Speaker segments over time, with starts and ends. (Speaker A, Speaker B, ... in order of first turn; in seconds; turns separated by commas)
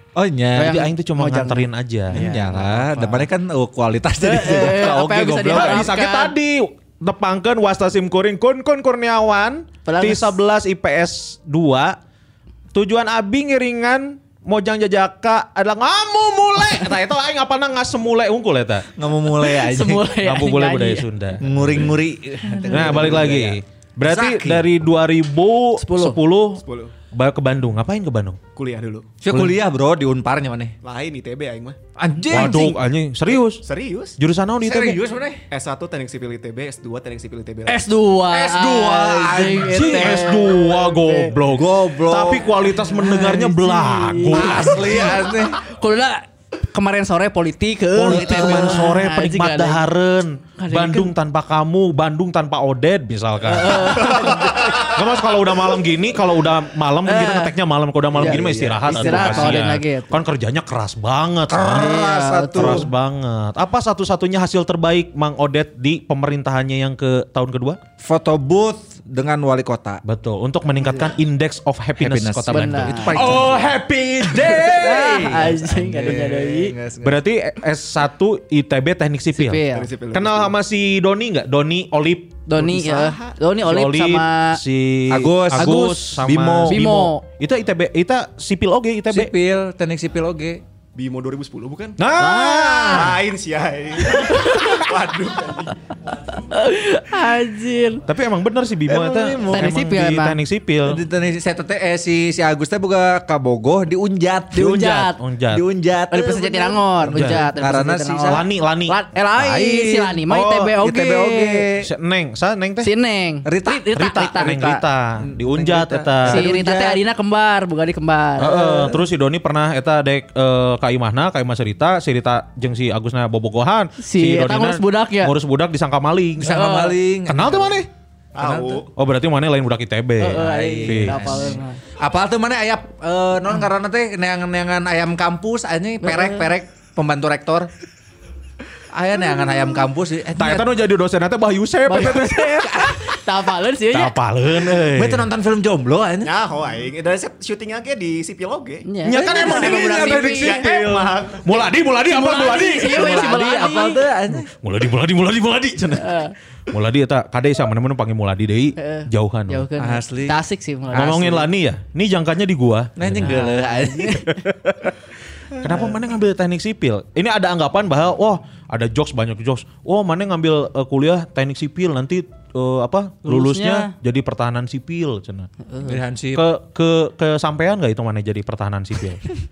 Speaker A: 0.1-0.8, Speaker B: 0.6-3.2, Speaker C: 0.6-2.2, Speaker A: 2.1-5.9, Speaker B: 4.2-6.3, Speaker C: 5.5-12.0, Speaker B: 9.8-10.3, Speaker C: 12.7-18.9, Speaker A: 19.0-20.1, Speaker B: 19.4-21.1, Speaker C: 20.1-21.9, Speaker A: 21.4-24.6, Speaker B: 22.5-23.1, Speaker C: 22.7-28.4, Speaker B: 25.8-26.2, Speaker D: 26.6-26.9, Speaker D: 28.6-29.1, Speaker A: 29.2-30.8, Speaker C: 29.3-29.5, Speaker D: 30.8-31.8, Speaker A: 32.0-32.8, Speaker C: 32.3-33.6, Speaker D: 33.6-34.2, Speaker C: 34.2-35.0, Speaker A: 34.6-35.4, Speaker D: 35.5-37.8, Speaker B: 37.7-41.3, Speaker A: 38.3-40.2, Speaker C: 39.6-44.8, Speaker A: 41.5-42.5, Speaker B: 42.8-49.9, Speaker A: 44.3-45.5, Speaker C: 47.9-61.9, Speaker A: 48.1-48.8, Speaker B: 50.6-51.1, Speaker B: 53.5-54.9, Speaker B: 57.0-57.5, Speaker A: 58.1-59.6, Speaker B: 58.1-60.2, Speaker A: 61.5-62.9, Speaker B: 61.5-62.9, Speaker C: 62.5-67.8, Speaker A: 68.0-70.0, Speaker C: 70.0-75.0, Speaker A: 72.0-77.2, Speaker B: 72.5-73.3, Speaker B: 74.7-76.7, Speaker C: 77.0-82.5, Speaker B: 79.4-79.9, Speaker D: 79.7-80.5, Speaker B: 82.5-84.6, Speaker D: 82.5-83.4, Speaker C: 83.6-89.3, Speaker A: 85.1-87.1, Speaker B: 85.5-87.2, Speaker A: 89.1-90.6, Speaker D: 91.0-92.0, Speaker C: 92.0-93.2, Speaker B: 92.2-92.9, Speaker A: 92.4-93.0, Speaker D: 92.8-95.8, Speaker B: 94.2-94.8, Speaker B: 96.4-98.0, Speaker C: 98.1-101.0, Speaker A: 98.9-99.8, Speaker B: 99.5-100.4, Speaker A: 100.8-105.0, Speaker B: 104.5-105.2, Speaker C: 104.6-105.6, Speaker A: 105.5-108.5, Speaker B: 106.1-111.7, Speaker C: 107.1-107.4, Speaker C: 108.3-109.0, Speaker A: 109.4-111.9, Speaker C: 110.3-110.7, Speaker C: 111.8-112.9, Speaker B: 112.8-114.6, Speaker A: 113.5-114.8, Speaker C: 113.9-116.5, Speaker A: 115.3-117.0, Speaker B: 116.2-119.0, Speaker C: 118.4-126.7, Speaker B: 124.0-125.3, Speaker A: 126.4-127.6, Speaker B: 126.5-126.9, Speaker C: 127.2-127.9, Speaker D: 128.3-128.9, Speaker A: 128.4-128.8, Speaker C: 129.0-131.5, Speaker B: 130.2-131.8, Speaker A: 130.4-137.7, Speaker B: 136.0-136.5, Speaker A: 138.9-140.6, Speaker C: 140.4-142.7, Speaker B: 141.9-144.2, Speaker C: 143.9-145.3, Speaker A: 144.6-146.3, Speaker D: 146.2-151.7, Speaker B: 148.9-150.7, Speaker C: 149.0-153.1, Speaker B: 152.1-154.0, Speaker A: 152.8-154.5, Speaker C: 154.4-156.2, Speaker B: 156.0-156.3, Speaker C: 156.7-159.7, Speaker B: 158.8-161.4, Speaker A: 159.8-160.4, Speaker A: 160.9-161.5, Speaker C: 160.9-163.4, Speaker A: 163.0-164.2, Speaker B: 163.2-164.4, Speaker C: 164.3-164.9, Speaker C: 165.6-175.5, Speaker A: 165.6-165.9, Speaker B: 173.2-173.9, Speaker B: 175.7-176.0, Speaker A: 175.9-176.5, Speaker C: 176.3-179.2